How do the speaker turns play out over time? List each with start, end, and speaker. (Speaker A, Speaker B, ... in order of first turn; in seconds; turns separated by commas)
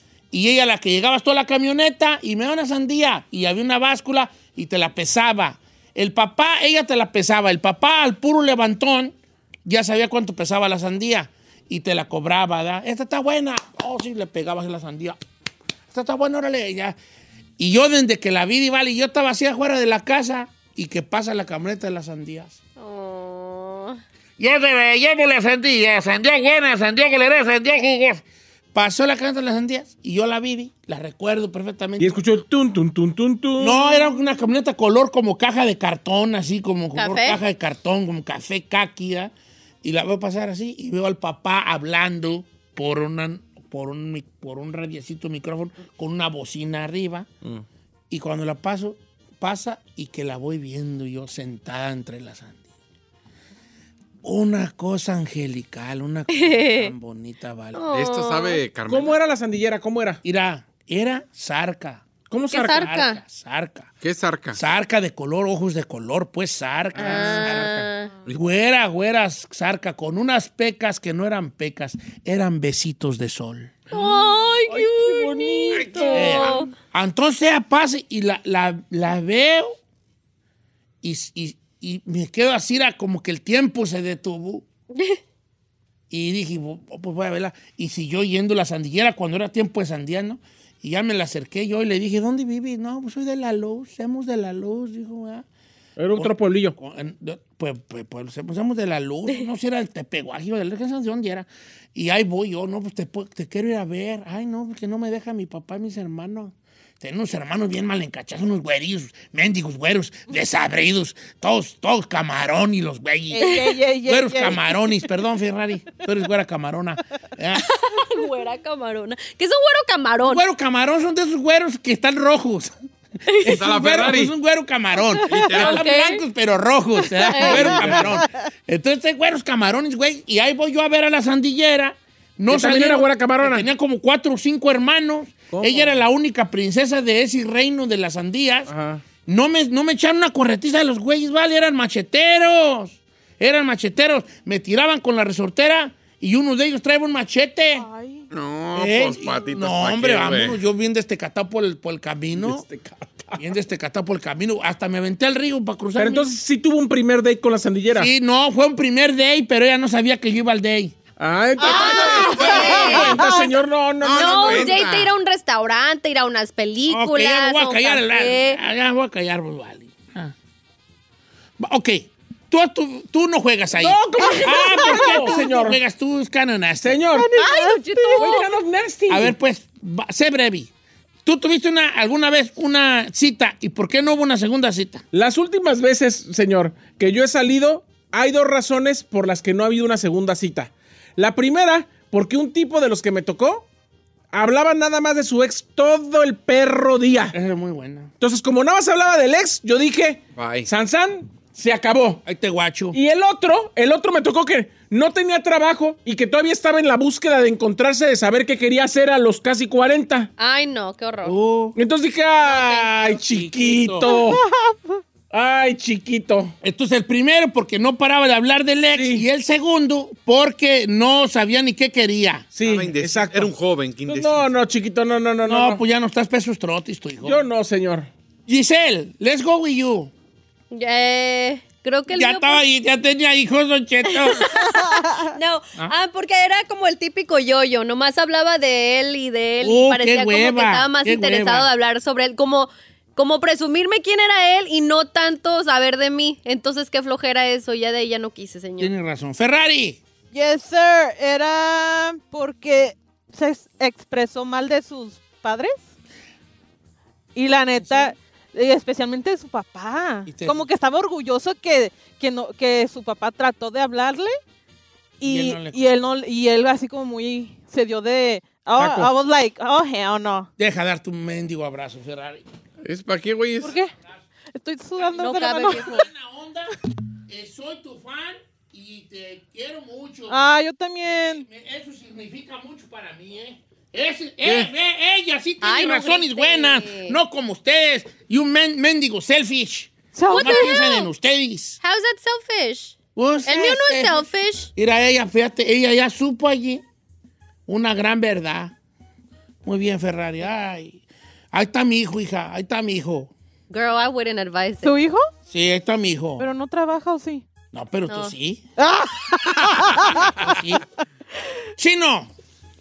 Speaker A: 0.3-9.1, Speaker A: 9.7-15.2, Speaker A: 15.9-17.0, Speaker A: 17.6-22.6, Speaker B: 22.8-24.0, Speaker A: 24.4-28.2, Speaker A: 28.7-32.2, Speaker C: 32.0-33.8, Speaker A: 33.6-39.3, Speaker B: 36.9-37.4, Speaker A: 39.8-47.3, Speaker A: 48.1-52.6, Speaker A: 54.2-57.8, Speaker B: 56.3-56.9, Speaker B: 57.7-58.6, Speaker D: 57.9-59.1, Speaker C: 58.9-60.2, Speaker A: 60.2-62.0, Speaker C: 62.3-62.9, Speaker B: 62.5-63.2, Speaker A: 62.6-63.9, Speaker D: 64.0-64.6, Speaker A: 64.5-73.7, Speaker C: 66.9-67.8, Speaker B: 67.0-68.1, Speaker B: 73.9-76.7, Speaker C: 74.7-76.3, Speaker A: 76.1-79.8, Speaker A: 81.0-84.6, Speaker B: 84.9-85.2, Speaker A: 86.1-95.5, Speaker C: 96.0-96.8, Speaker A: 96.2-117.6, Speaker E: 113.3-114.9, Speaker B: 117.5-120.4, Speaker A: 120.2-122.7, Speaker A: 123.4-138.7, Speaker D: 123.4-124.3, Speaker D: 125.3-125.9, Speaker B: 125.5-126.2, Speaker B: 127.2-127.9, Speaker E: 127.3-128.4, Speaker C: 132.5-133.7, Speaker C: 135.5-136.0, Speaker C: 138.7-139.0, Speaker A: 139.2-147.9, Speaker E: 147.8-148.3, Speaker D: 148.3-150.6, Speaker A: 148.7-152.6, Speaker C: 152.4-153.4, Speaker A: 153.4-156.3, Speaker C: 155.9-158.1, Speaker A: 157.9-160.9, Speaker C: 161.2-164.8, Speaker B: 161.6-163.2, Speaker E: 161.6-163.5, Speaker A: 162.7-163.0, Speaker D: 164.0-165.1, Speaker B: 164.1-168.6, Speaker A: 166.9-170.3, Speaker A: 171.6-177.0, Speaker C: 173.7-175.8, Speaker E: 174.4-175.3, Speaker C: 176.8-177.3, Speaker E: 177.1-178.4, Speaker B: 177.4-178.5, Speaker C: 178.1-179.3, Speaker A: 179.1-180.7, Speaker A: 181.2-185.0, Speaker C: 185.1-193.7, Speaker C: 194.3-197.3, Speaker A: 197.3-198.1, Speaker C: 198.2-202.2, Speaker D: 200.4-200.7, Speaker A: 202.2-203.0, Speaker C: 202.9-210.3, Speaker B: 210.4-211.3, Speaker A: 211.2-211.8, Speaker C: 211.7-214.4, Speaker B: 212.4-213.1, Speaker A: 213.3-214.1, Speaker E: 214.0-215.0, Speaker C: 215.3-216.5, Speaker A: 216.6-222.5, Speaker C: 218.9-219.2, Speaker C: 222.5-223.5, Speaker D: 222.6-224.5, Speaker C: 224.1-225.8, Speaker A: 225.4-227.4, Speaker C: 227.2-228.1, Speaker A: 228.5-230.1, Speaker B: 230.7-232.6, Speaker A: 232.1-234.4, Speaker B: 234.1-248.9, Speaker E: 234.8-235.2, Speaker A: 239.6-241.7, Speaker A: 248.8-250.0, Speaker E: 250.3-255.8, Speaker E: 257.4-264.4, Speaker A: 257.8-258.1, Speaker A: 260.3-260.6, Speaker E: 265.2-270.5, Speaker A: 265.2-265.9, Speaker C: 268.8-269.1, Speaker A: 270.6-272.4, Speaker D: 272.8-273.8, Speaker E: 273.6-273.9, Speaker E: 274.6-276.1, Speaker B: 275.1-276.0, Speaker A: 275.8-276.8, Speaker A: 277.3-280.4, Speaker E: 280.3-281.4, Speaker A: 281.1-291.8, Speaker D: 284.4-284.7, Speaker B: 285.6-287.2, Speaker E: 290.1-290.8, Speaker B: 290.3-291.1, Speaker B: 291.8-294.7, Speaker A: 293.1-296.8, Speaker A: 297.7-298.7, Speaker A: 299.6-301.0, Speaker A: 301.5-303.3, Speaker B: 303.7-305.0, Speaker E: 304.8-305.3, Speaker A: 305.5-306.4, Speaker E: 306.4-307.4, Speaker A: 307.7-308.6, Speaker B: 308.1-308.3, Speaker E: 308.8-310.3, Speaker A: 310.1-310.8, Speaker A: 311.8-312.3